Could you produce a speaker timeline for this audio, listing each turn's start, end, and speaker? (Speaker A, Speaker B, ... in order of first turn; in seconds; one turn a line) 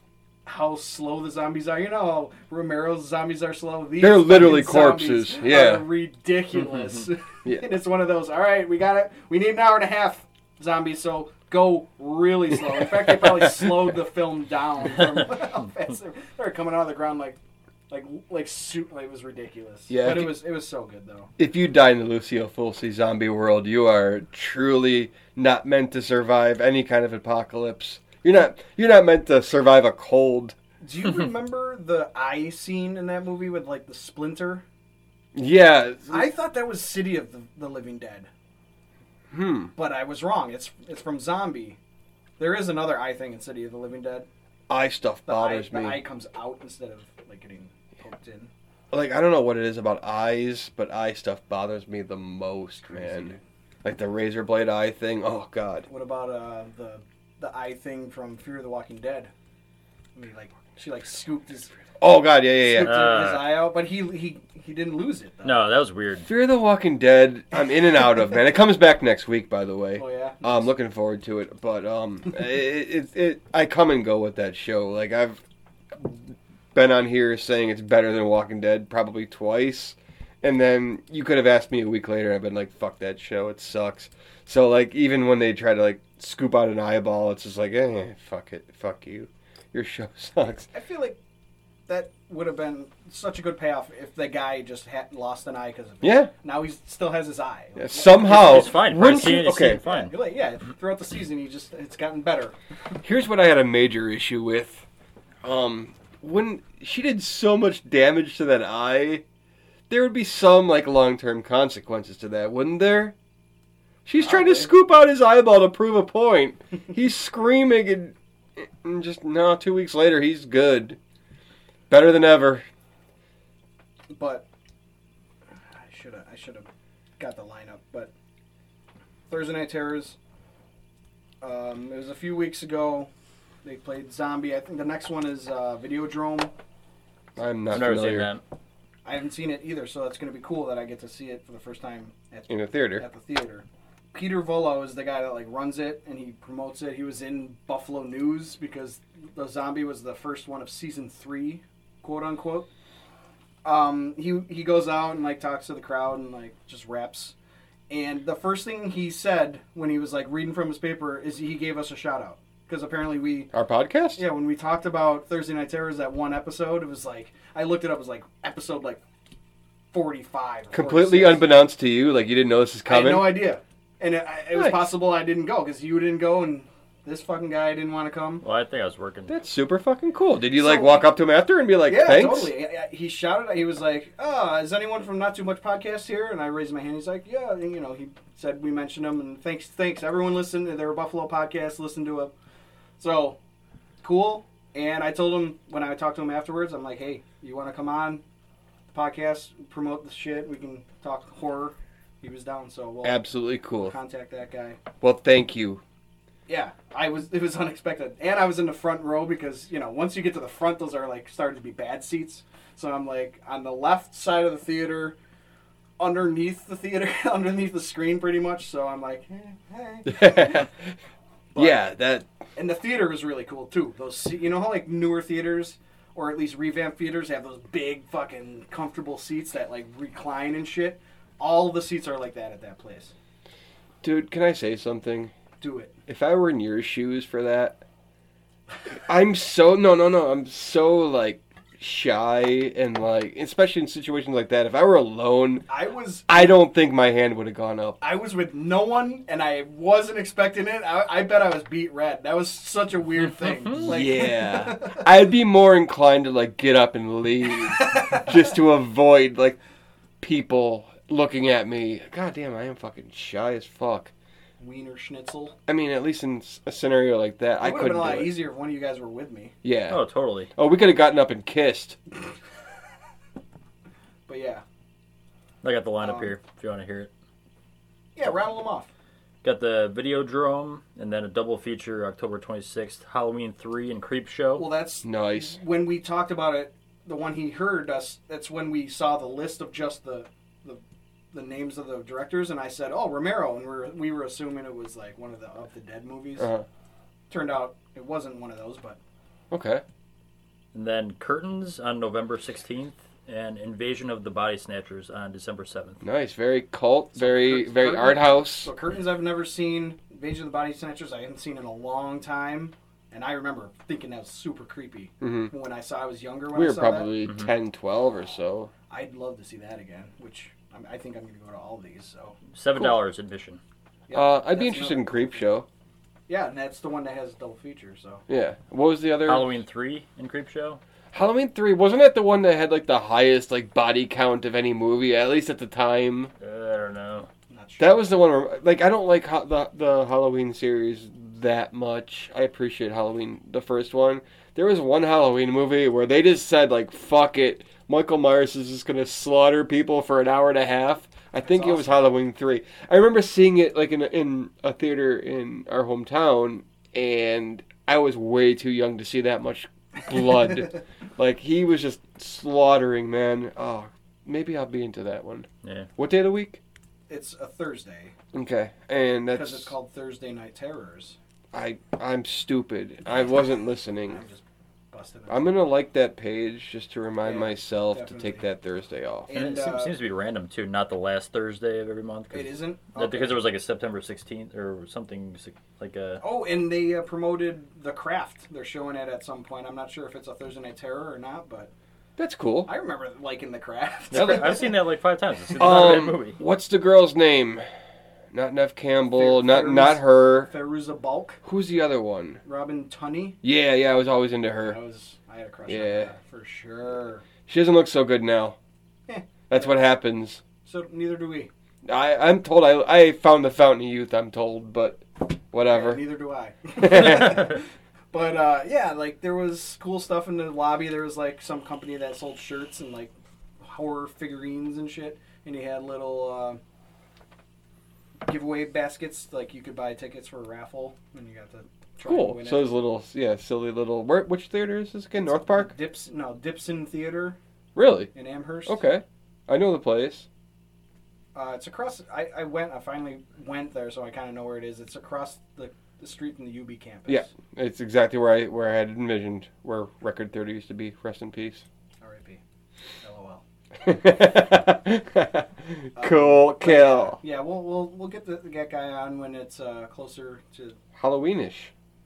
Speaker A: 0.5-17.4
Speaker B: 4.0-5.9
Speaker A: 17.9-21.3
Speaker B: 19.9-20.4
Speaker B: 21.4-30.6
Speaker A: 30.8-34.6
Speaker B: 35.3-36.3
Speaker A: 36.1-38.3
Speaker B: 39.3-39.7
Speaker A: 39.7-41.8
Speaker A: 42.4-44.3
Speaker B: 44.7-46.0
Speaker A: 45.3-48.5
Speaker B: 48.9-55.9
Speaker A: 52.9-53.4
Speaker A: 55.9-59.3
Speaker A: 60.1-61.8
Speaker B: 62.0-63.1
Speaker A: 62.6-65.6
Speaker C: 62.8-63.6
Speaker C: 65.4-66.3
Speaker B: 66.2-75.4
Speaker A: 70.0-70.7
Speaker B: 76.0-90.7
Speaker A: 90.7-91.2
Speaker A: 91.9-98.9
Speaker B: 96.0-96.3
Speaker B: 97.8-99.8
Speaker C: 98.2-100.1
Speaker A: 99.5-102.5
Speaker B: 103.0-104.8
Speaker B: 105.4-109.2
Speaker B: 109.9-113.1
Speaker B: 114.0-121.0
Speaker A: 114.2-114.7
Speaker B: 121.9-122.7
Speaker A: 124.1-124.5
Speaker A: 125.7-128.1
Speaker A: 129.3-130.2
Speaker A: 131.4-133.1
Speaker A: 133.6-136.5
Speaker B: 137.4-138.3
Speaker C: 137.7-138.4
Speaker A: 139.0-152.7
Speaker B: 142.5-143.1
Speaker A: 153.6-157.3
Speaker A: 157.9-163.5
Speaker B: 163.5-164.2
Speaker A: 164.2-169.0
Speaker A: 169.9-171.5
Speaker B: 170.7-173.4
Speaker A: 172.8-178.4
Speaker B: 174.5-174.9
Speaker C: 178.4-179.3
Speaker B: 179.3-182.5
Speaker A: 180.5-181.1
Speaker A: 181.8-192.3
Speaker A: 193.0-193.4
Speaker A: 194.0-198.2
Speaker A: 198.9-204.8
Speaker B: 203.0-203.9
Speaker B: 205.0-205.8
Speaker A: 206.5-215.2
Speaker A: 216.0-220.7
Speaker B: 220.1-220.9
Speaker A: 221.5-221.9
Speaker B: 221.6-222.3
Speaker A: 222.5-233.1
Speaker B: 234.0-235.3
Speaker A: 235.6-236.0
Speaker B: 236.1-237.8
Speaker B: 238.9-245.7
Speaker A: 245.7-246.6
Speaker B: 246.3-248.0
Speaker A: 248.0-255.1
Speaker B: 253.8-259.6
Speaker A: 257.8-258.3
Speaker B: 260.2-264.1
Speaker A: 264.6-265.6
Speaker B: 265.7-268.4
Speaker A: 267.6-269.5
Speaker B: 269.6-270.0
Speaker C: 269.9-270.5
Speaker B: 270.5-272.0
Speaker A: 274.3-274.6
Speaker C: 275.6-277.1
Speaker A: 276.0-276.3
Speaker A: 278.1-278.9
Speaker C: 279.4-284.7
Speaker A: 284.6-296.5
Speaker B: 285.0-285.6
Speaker B: 296.4-296.6
Speaker A: 297.3-299.0
Speaker B: 299.5-299.8
Speaker C: 300.7-306.0
Speaker B: 306.0-308.7
Speaker A: 307.1-317.1
Speaker B: 315.2-315.5
Speaker B: 316.5-318.7
Speaker A: 318.9-322.4
Speaker C: 322.5-323.6
Speaker A: 324.1-325.5
Speaker B: 324.1-325.7
Speaker A: 326.3-328.2
Speaker B: 328.3-329.5
Speaker C: 329.2-330.8
Speaker B: 331.1-336.3
Speaker C: 336.4-337.3
Speaker A: 337.5-338.2
Speaker B: 337.8-366.6
Speaker A: 351.4-352.1
Speaker C: 365.6-365.9
Speaker A: 367.1-368.1
Speaker B: 368.3-369.7
Speaker A: 369.3-371.2
Speaker B: 371.5-374.2
Speaker A: 374.1-375.5
Speaker B: 375.3-379.3
Speaker A: 377.2-378.5
Speaker A: 379.3-380.0
Speaker C: 379.3-386.2
Speaker A: 382.3-383.4
Speaker A: 386.2-391.7
Speaker B: 392.2-392.7
Speaker A: 392.6-394.7
Speaker C: 394.1-396.4
Speaker B: 394.1-394.5
Speaker B: 395.6-397.6
Speaker B: 398.3-400.5
Speaker A: 399.1-401.4
Speaker B: 401.4-402.4
Speaker A: 402.4-403.4
Speaker B: 403.4-404.8
Speaker A: 404.6-407.2
Speaker B: 405.7-406.1
Speaker B: 407.5-408.6
Speaker A: 409.1-409.8
Speaker B: 409.5-410.4
Speaker A: 410.6-411.5
Speaker B: 411.9-416.1
Speaker A: 415.6-426.6
Speaker B: 416.8-417.5
Speaker A: 428.2-432.7
Speaker B: 432.0-435.7
Speaker A: 435.2-437.4
Speaker B: 437.8-438.1
Speaker A: 438.1-438.8
Speaker B: 438.6-440.3
Speaker A: 441.3-447.3
Speaker B: 447.1-451.6
Speaker A: 452.0-452.4
Speaker A: 453.0-453.4
Speaker B: 453.8-457.2
Speaker A: 455.9-460.8
Speaker B: 460.9-461.7